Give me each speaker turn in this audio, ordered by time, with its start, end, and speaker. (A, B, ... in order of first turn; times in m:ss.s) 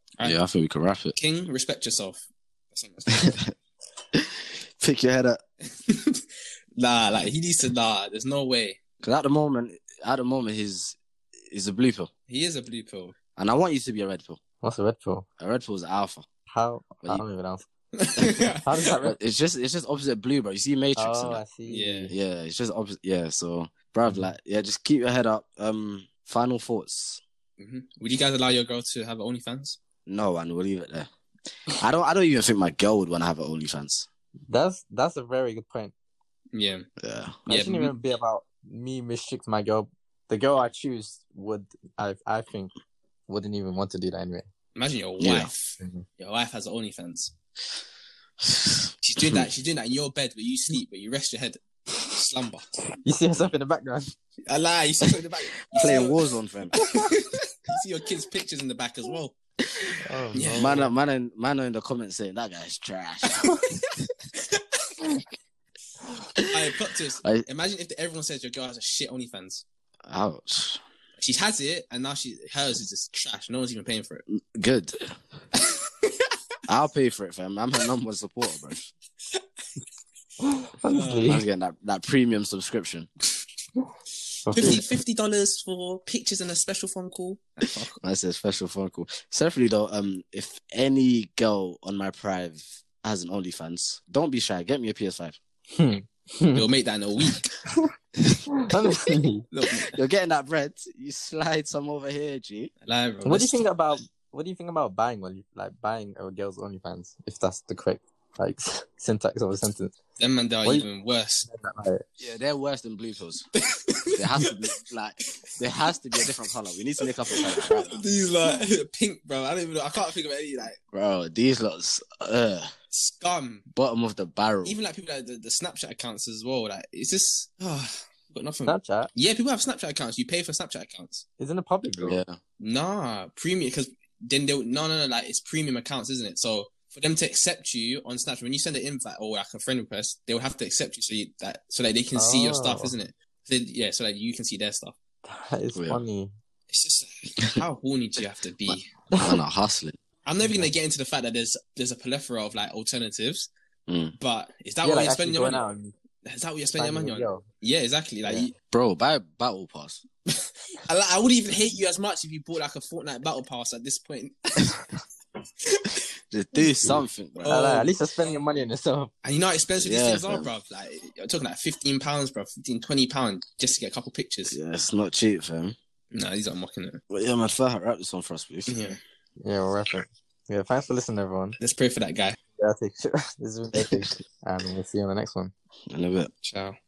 0:00.2-0:01.1 A
0:01.1-0:03.4 B
0:04.1-0:05.4 A
0:05.8-0:06.2 B
0:06.8-0:08.8 B
0:09.0-0:11.0 A
0:11.5-0:12.1 A
0:12.3-0:13.1 B
0:13.4-0:14.4 A
0:14.6-0:15.2 C
0:15.4-0:16.2 A
0:16.5-0:17.6 C
0:18.0-0:18.7 B
0:18.6-0:19.2 C
0:19.0-0:21.4 A
0:21.0-0:22.1 C
0:21.6-0:22.1 B
0:22.1-0:27.2 A
0:27.6-0:29.8 B
0:30.0-0:31.1 A
0:31.7-0:34.1 A
0:34.5-0:35.9 C
0:36.5-0:36.8 B
0:37.0-0:37.4 A
0:37.5-0:37.9 B
0:37.5-0:42.7 C
0:43.3-0:44.5 C
0:44.7-0:47.3 B
0:45.2-0:45.5 A
0:48.4-0:49.4 A
0:49.0-0:52.6 B
0:53.0-0:54.1 C
0:54.5-0:56.2 B
0:55.7-0:56.7 A
0:56.8-0:59.4 B
0:59.6-1:03.5 A
1:00.0-1:00.9 C
1:00.3-1:00.8 B
1:03.4-1:03.8 B
1:04.5-1:04.8 B
1:06.5-1:09.6 B
1:10.0-1:10.8 A
1:11.2-1:14.2 B
1:14.5-1:15.2 A
1:16.7-1:18.9 A
1:20.4-1:21.4 C
1:20.9-1:21.4 B
1:21.2-1:23.1 A
1:24.4-1:24.8 C
1:24.5-1:28.0 B
1:28.0-1:35.4 A
1:35.8-1:36.6 C
1:36.5-1:37.5 B
1:38.6-1:39.4 C
1:39.5-1:40.0 B
1:39.9-1:42.7 A
1:42.8-1:43.7 B
1:43.2-1:49.9 C
1:50.2-1:51.4 B
1:51.4-1:52.0 C
1:52.2-1:53.4 A
1:53.7-1:54.5 B
1:54.1-1:58.0 A
1:57.5-2:00.8 B
2:00.9-2:02.7 A
2:02.9-2:03.6 B
2:03.7-2:04.8 A
2:04.6-2:11.2 B
2:08.6-2:09.1 C
2:11.4-2:12.2 C
2:12.0-2:12.4 A
2:12.6-2:25.0 B
2:22.1-2:22.9 C
2:25.2-2:26.3 C
2:25.7-2:26.0 A
2:26.7-2:28.9 B
2:29.2-2:30.0 A
2:30.2-2:33.5 B
2:33.9-2:34.2 A
2:34.2-2:35.6 B
2:34.8-2:35.9 C
2:36.2-2:38.5 B
2:36.8-2:37.4 C
2:38.2-2:38.5 C
2:38.7-2:40.0 A
2:40.8-2:44.8 B
2:46.3-2:47.6 A
2:46.8-2:49.1 C
2:47.4-2:48.4 B
2:49.2-2:54.6 B
2:49.8-2:50.5 A
2:54.5-2:55.8 A
2:56.1-2:57.0 B
2:57.1-2:58.8 A
2:58.7-2:59.0 B
2:59.4-3:01.6 C
3:01.6-3:02.4 B
3:02.6-3:05.5 C
3:03.7-3:04.2 A
3:05.9-3:06.3 A
3:06.4-3:06.8 B